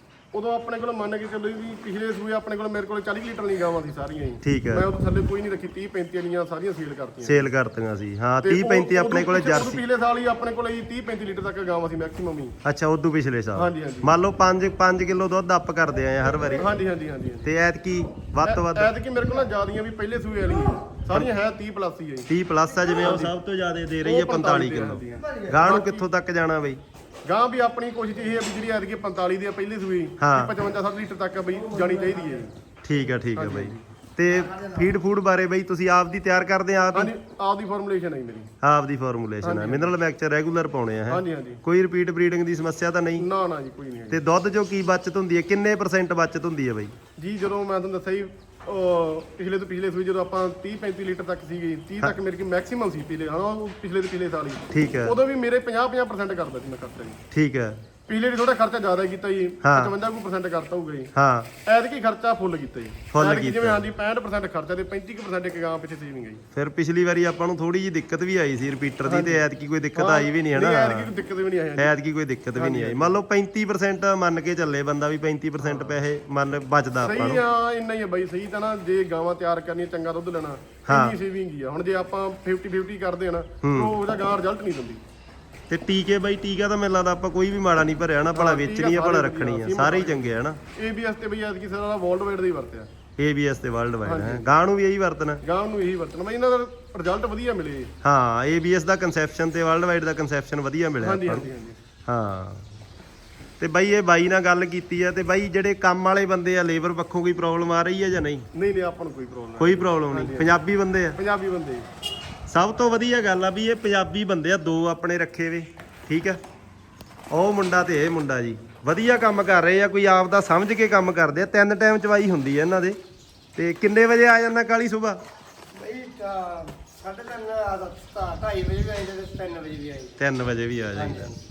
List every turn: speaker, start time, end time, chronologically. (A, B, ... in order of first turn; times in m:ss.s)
0:00.3-0:07.5 A
0:04.4-0:04.9 B
0:07.2-0:09.8 B
0:08.4-0:12.5 A
0:12.6-0:16.8 B
0:13.5-0:14.1 A
0:16.6-0:17.5 A
0:17.4-0:18.9 B
0:18.4-0:22.3 A
0:22.3-0:26.8 B
0:23.0-0:23.3 A
0:24.0-0:26.0 A
0:25.3-0:25.6 C
0:27.2-0:32.5 A
0:30.2-0:30.5 B
0:31.7-0:32.4 C
0:32.8-0:37.1 B
0:33.3-0:33.8 A
0:34.5-0:34.8 C
0:36.9-0:38.5 A
0:38.6-0:43.2 B
0:39.4-0:39.9 A
0:41.1-0:41.6 A
0:43.2-0:44.2 A
0:44.1-0:46.9 B
0:47.2-0:57.2 A
0:54.7-0:55.2 B
0:57.3-0:57.8 B
0:58.1-1:01.1 A
0:59.6-0:59.9 B
1:01.1-1:01.5 B
1:01.6-1:06.4 A
1:03.1-1:03.8 B
1:06.5-1:11.1 B
1:09.0-1:09.4 A
1:09.9-1:11.9 A
1:11.8-1:17.4 B
1:12.5-1:13.2 A
1:17.0-1:25.0 A
1:20.9-1:21.2 B
1:23.6-1:23.9 B
1:25.7-1:30.6 B
1:28.3-1:32.9 A
1:33.2-1:35.4 B
1:34.0-1:34.5 A
1:35.4-1:37.9 A
1:38.0-1:41.5 B
1:41.0-1:41.8 A
1:42.1-1:42.6 B
1:43.6-1:48.5 B
1:48.5-1:50.5 A
1:49.6-1:51.2 B
1:51.2-1:51.9 A
1:52.5-1:56.4 B
1:57.3-2:03.0 B
2:03.6-2:05.2 B
2:05.7-2:10.2 C
2:10.2-2:11.4 B
2:10.9-2:11.4 C